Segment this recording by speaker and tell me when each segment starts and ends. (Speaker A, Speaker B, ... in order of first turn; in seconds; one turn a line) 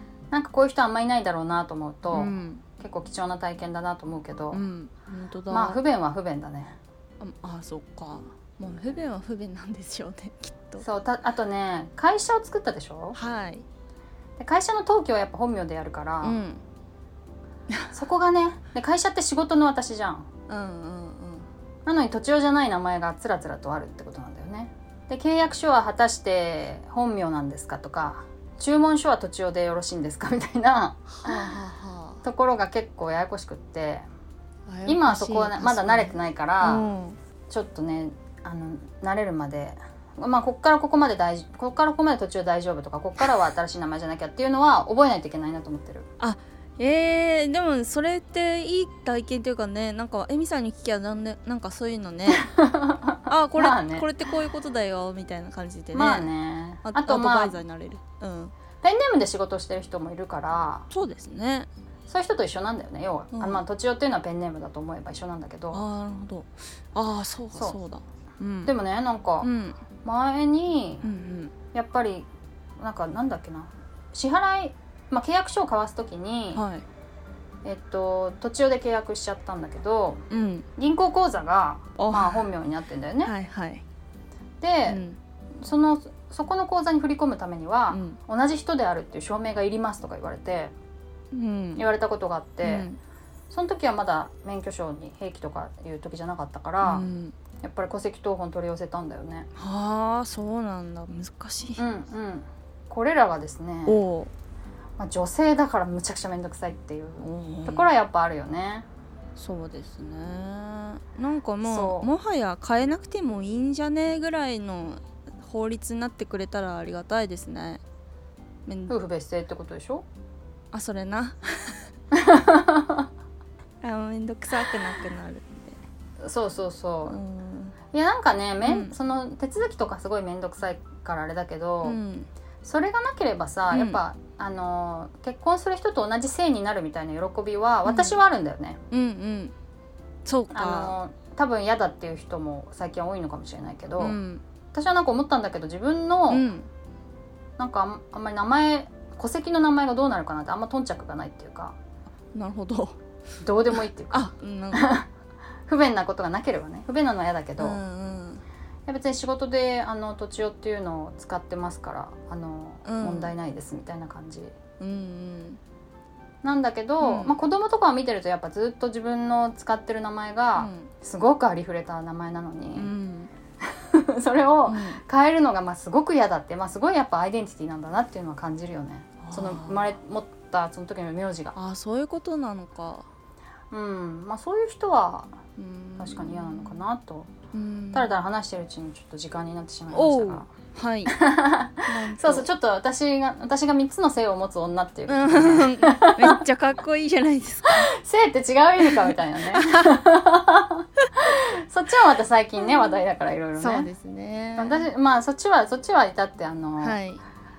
Speaker A: 0.3-4.6
Speaker B: 2.1-2.6
Speaker B: 4.5-5.8
Speaker A: 5.5-6.8
Speaker B: 7.2-10.8
Speaker A: 10.8-13.2
Speaker B: 13.2-13.7
Speaker A: 14.4-16.4
Speaker B: 16.2-16.6
Speaker A: 17.9-20.3
Speaker B: 20.5-21.5
Speaker A: 21.9-31.2
Speaker B: 31.2-32.2
Speaker A: 32.2-34.0
Speaker B: 34.7-37.2
Speaker A: 34.9-36.9
Speaker A: 37.5-46.1
Speaker B: 46.2-52.5
Speaker A: 52.3-54.1
Speaker B: 53.3-56.3
Speaker A: 55.9-57.6
Speaker B: 56.8-58.5
Speaker A: 58.8-60.9
Speaker B: 60.9-61.7
Speaker A: 62.1-65.8
Speaker B: 63.3-63.6
Speaker B: 65.7-68.7
Speaker A: 68.7-69.5
Speaker B: 69.4-69.8
Speaker A: 70.0-71.1
Speaker B: 71.0-71.5
Speaker A: 71.7-72.3
Speaker A: 72.8-76.6
Speaker B: 76.5-76.8
Speaker A: 77.7-80.2
Speaker B: 80.3-80.7
Speaker A: 80.8-83.3
Speaker B: 82.0-82.5
Speaker B: 83.2-83.8
Speaker A: 84.6-85.0
Speaker B: 84.9-85.2
Speaker A: 85.6-90.7
Speaker B: 87.9-88.2
Speaker B: 91.3-91.8
Speaker A: 91.8-92.9
Speaker B: 92.6-93.0
Speaker A: 93.5-97.1
Speaker B: 96.8-97.3
Speaker A: 97.6-99.5
Speaker B: 99.6-101.8
Speaker A: 101.8-104.0
Speaker B: 103.9-104.3
Speaker A: 105.0-108.9
Speaker B: 107.2-107.9
Speaker B: 109.4-117.8
Speaker A: 111.6-112.1
Speaker B: 118.7-119.0
Speaker A: 118.9-120.1
Speaker B: 120.7-121.9
Speaker A: 122.1-123.0
Speaker B: 123.8-125.8
Speaker A: 126.2-127.2
Speaker B: 127.1-127.8
Speaker A: 127.9-132.0
Speaker B: 128.6-128.9
Speaker B: 131.8-132.3
Speaker A: 132.6-138.8
Speaker B: 133.7-134.0
Speaker B: 137.8-138.2
Speaker B: 138.9-139.5
Speaker B: 140.2-140.9
Speaker A: 140.5-144.2
Speaker B: 144.0-144.4
Speaker A: 144.7-146.4
Speaker B: 146.3-146.7
Speaker A: 147.6-151.8
Speaker B: 152.3-153.0
Speaker A: 153.4-155.1
Speaker B: 154.1-154.9
Speaker A: 155.7-157.8
Speaker B: 157.6-158.4
Speaker A: 158.9-164.6
Speaker B: 162.8-163.3
Speaker B: 164.8-165.6
Speaker A: 166.4-172.9
Speaker B: 167.0-167.4
Speaker B: 170.6-170.9
Speaker B: 172.8-173.3
Speaker A: 173.7-181.6
Speaker B: 174.7-175.0
Speaker B: 179.2-179.9
Speaker B: 181.6-183.1
Speaker A: 183.7-185.3
Speaker B: 185.6-186.8
Speaker A: 186.0-187.3
Speaker B: 187.5-188.1
Speaker A: 187.9-190.5
Speaker B: 189.9-191.2
Speaker A: 191.1-196.4
Speaker B: 191.8-192.5
Speaker B: 195.1-197.9
Speaker A: 197.7-203.9
Speaker B: 199.5-199.9
Speaker B: 203.6-204.9
Speaker A: 204.6-207.0
Speaker B: 206.8-207.2